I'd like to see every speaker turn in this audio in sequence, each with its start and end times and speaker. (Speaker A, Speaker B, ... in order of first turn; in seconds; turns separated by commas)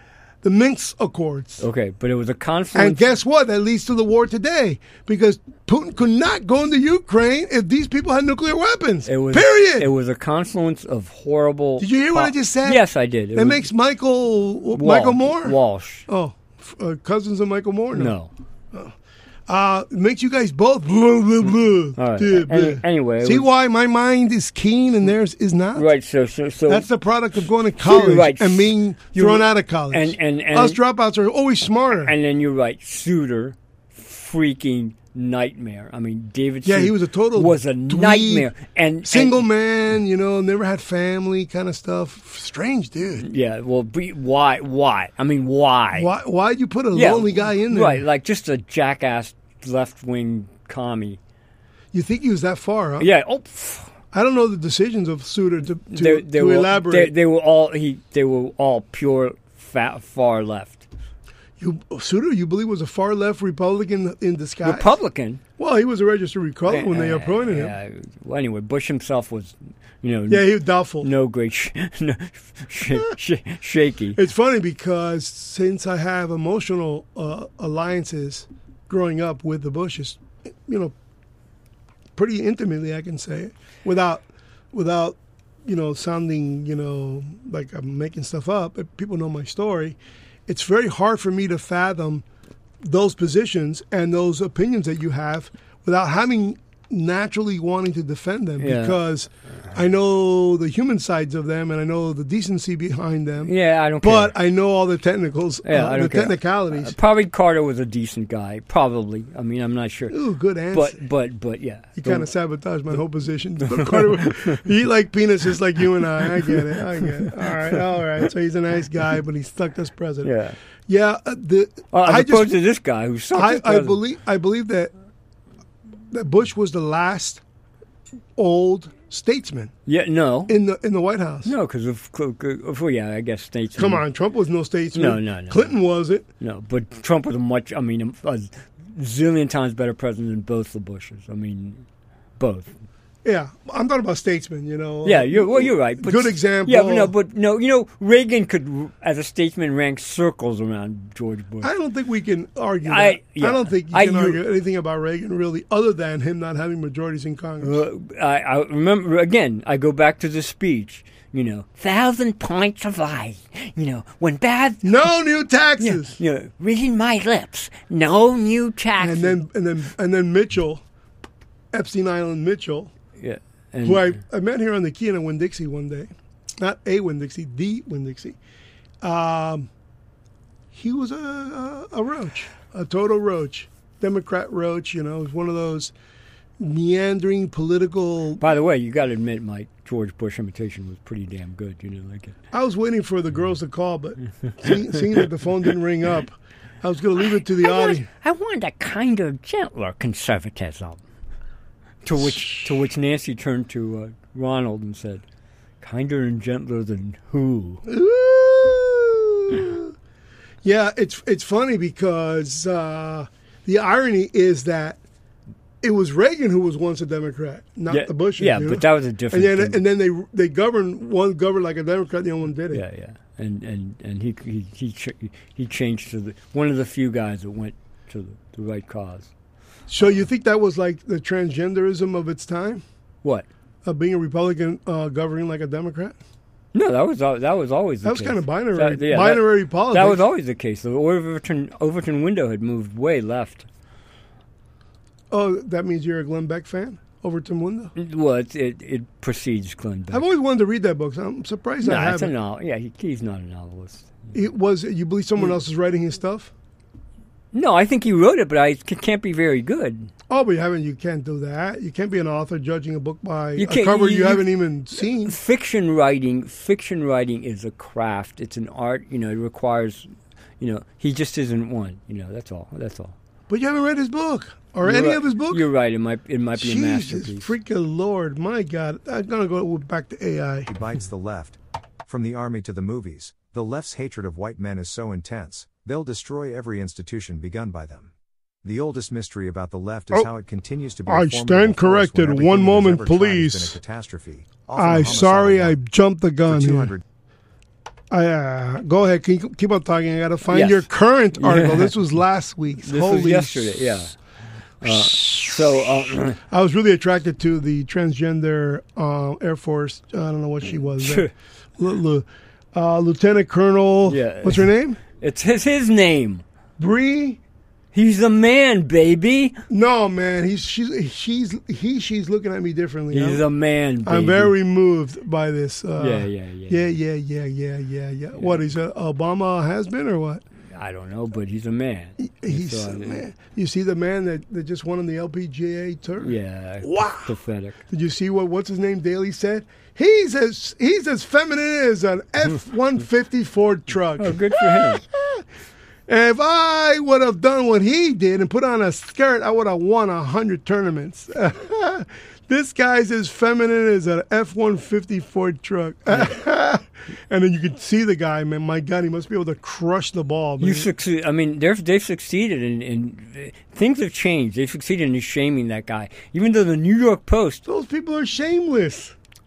Speaker A: 0.4-1.6, Speaker B: 1.6-3.0, Speaker A: 2.7-9.9, Speaker B: 9.1-13.7, Speaker A: 11.8-12.8, Speaker A: 13.3-15.6, Speaker B: 14.8-16.1, Speaker A: 16.1-18.1, Speaker B: 17.9-18.3, Speaker A: 19.5-25.9, Speaker B: 22.0-23.5, Speaker B: 25.7-26.9, Speaker A: 26.7-32.1, Speaker B: 27.8-30.8, Speaker B: 31.9-39.4, Speaker A: 36.6-38.5, Speaker A: 39.0-43.2, Speaker B: 43.2-46.1, Speaker A: 45.9-48.0, Speaker B: 46.9-51.2, Speaker A: 51.9-53.1, Speaker B: 53.0-53.9, Speaker A: 54.1-57.1, Speaker B: 55.9-60.9, Speaker A: 61.6-64.9, Speaker B: 64.6-65.4, Speaker A: 65.6-67.7, Speaker B: 66.7-74.2, Speaker A: 70.3-71.1, Speaker A: 74.1-80.9, Speaker A: 82.2-90.0, Speaker A: 90.5-92.2, Speaker A: 92.8-106.9, Speaker B: 98.6-99.0, Speaker B: 103.4-104.3, Speaker B: 105.6-110.2, Speaker A: 110.1-111.0, Speaker B: 110.7-112.3, Speaker A: 112.0-120.3, Speaker B: 113.7-114.5, Speaker B: 120.2-120.5, Speaker A: 120.9-122.6, Speaker B: 121.9-124.0, Speaker A: 123.3-124.9, Speaker A: 126.1-127.4, Speaker A: 128.4-129.7, Speaker B: 129.9-130.6, Speaker A: 130.5-131.5, Speaker B: 131.4-134.0, Speaker A: 133.8-136.2, Speaker B: 134.9-135.8, Speaker B: 136.4-141.8, Speaker B: 142.4-142.7, Speaker A: 143.2-147.1, Speaker B: 145.0-151.7, Speaker A: 151.6-157.8, Speaker B: 152.9-154.4, Speaker B: 157.6-165.2, Speaker A: 164.8-166.2, Speaker B: 165.8-169.4, Speaker A: 169.0-170.8, Speaker A: 171.7-172.9, Speaker B: 173.2-174.2, Speaker A: 173.8-178.4, Speaker A: 179.0-179.7, Speaker A: 180.7-185.9, Speaker A: 186.6-188.4, Speaker B: 188.4-192.4, Speaker A: 192.5-198.1, Speaker B: 197.6-201.0, Speaker B: 202.0-205.2, Speaker A: 202.2-202.7, Speaker B: 205.8-207.8, Speaker A: 207.9-209.9, Speaker A: 210.6-215.0, Speaker A: 215.8-222.8, Speaker B: 217.9-219.8, Speaker B: 222.7-229.3, Speaker A: 229.9-232.8, Speaker A: 233.8-236.2, Speaker B: 236.7-243.7, Speaker A: 238.0-240.2, Speaker A: 245.3-247.9, Speaker B: 247.9-250.2, Speaker A: 250.1-252.3, Speaker B: 251.8-254.3, Speaker A: 254.3-256.5, Speaker B: 257.5-260.1, Speaker A: 260.3-265.4, Speaker B: 263.6-270.1, Speaker B: 270.6-273.1, Speaker A: 273.5-275.6, Speaker B: 274.8-277.5, Speaker A: 276.6-280.7, Speaker C: 280.7-288.1, Speaker C: 288.6-295.8, Speaker A: 291.1-293.8, Speaker A: 294.8-296.9, Speaker C: 296.4-297.0, Speaker A: 298.1-303.8, Speaker B: 300.5-301.9, Speaker B: 302.8-304.1, Speaker B: 304.8-306.4, Speaker A: 304.8-305.6, Speaker A: 306.5-315.0, Speaker B: 311.0-311.3, Speaker B: 314.1-316.4, Speaker A: 316.8-317.4, Speaker B: 317.9-319.6, Speaker A: 319.7-323.4, Speaker B: 323.1-324.5, Speaker A: 324.1-330.4, Speaker B: 326.0-326.9, Speaker B: 330.7-333.2, Speaker A: 332.2-337.3, Speaker B: 336.2-337.8, Speaker A: 337.9-345.4, Speaker B: 344.2-345.0, Speaker A: 346.1-360.9, Speaker B: 360.6-367.6, Speaker A: 367.6-369.1